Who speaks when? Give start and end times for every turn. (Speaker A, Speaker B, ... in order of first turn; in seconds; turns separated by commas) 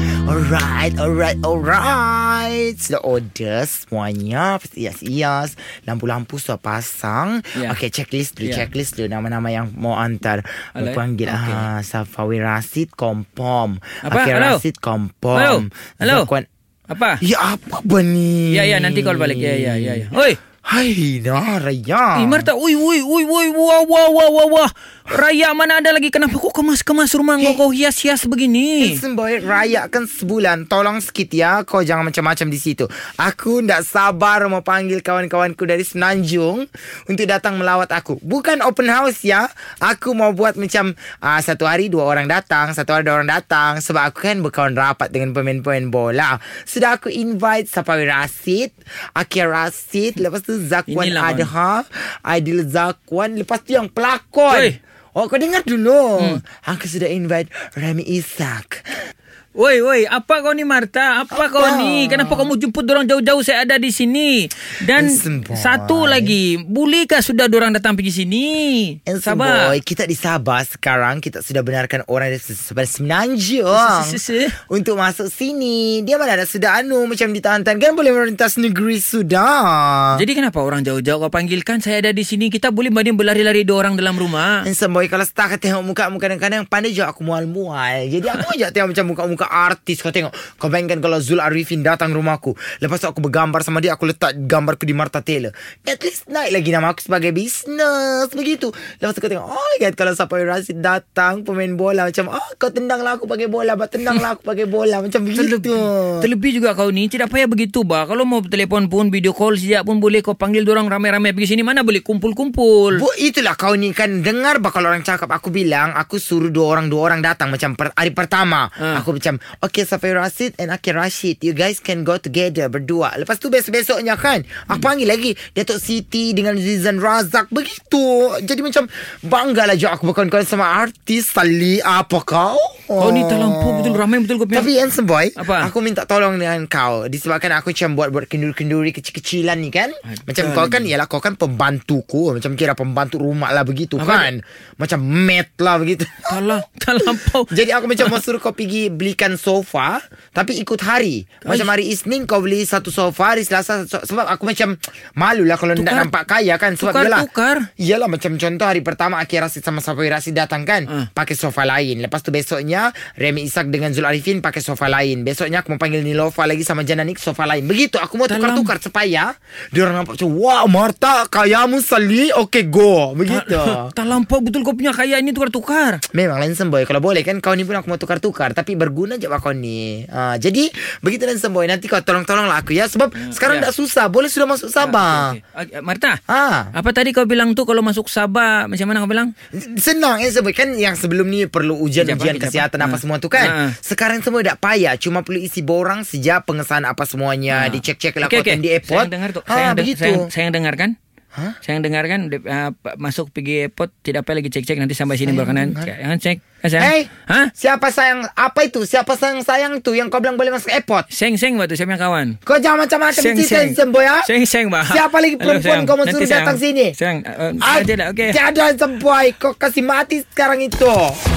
Speaker A: 0.2-16.5, Speaker B: 8.4-8.7, Speaker B: 10.8-11.7, Speaker B: 14.1-14.6, Speaker B: 15.3-16.3, Speaker B: 16.9-17.2, Speaker A: 17.2-22.5, Speaker B: 18.5-20.4, Speaker B: 22.1-29.0, Speaker A: 28.8-58.8, Speaker B: 50.9-51.5, Speaker B: 54.5-54.8, Speaker B: 59.6-69.7, Speaker A: 61.3-62.5, Speaker A: 65.0-66.4, Speaker A: 69.1-80.2, Speaker B: 73.7-74.5, Speaker B: 80.2-84.6, Speaker A: 84.6-106.3, Speaker B: 105.3-113.0, Speaker A: 112.9-134.0, Speaker B: 133.0-134.7, Speaker A: 134.5-146.6, Speaker B: 135.4-135.7, Speaker B: 140.1-140.9, Speaker B: 144.0-144.3, Speaker B: 146.3-148.2, Speaker A: 147.5-157.3, Speaker B: 151.4-151.7, Speaker B: 155.8-156.1, Speaker B: 156.8-157.7, Speaker A: 157.8-173.9, Speaker B: 168.3-168.7, Speaker B: 173.3-176.0, Speaker A: 176.1-185.4, Speaker B: 183.1-183.7, Speaker B: 184.8-186.2, Speaker A: 186.3-186.7, Speaker B: 186.7-189.3, Speaker A: 189.5-200.3, Speaker B: 192.0-193.7, Speaker B: 197.5-200.9, Speaker B: 201.6-207.5, Speaker A: 205.2-205.9, Speaker A: 206.8-211.1, Speaker B: 211.1-212.4, Speaker A: 212.4-214.2, Speaker B: 213.1-218.4, Speaker A: 214.8-216.9, Speaker A: 217.6-221.1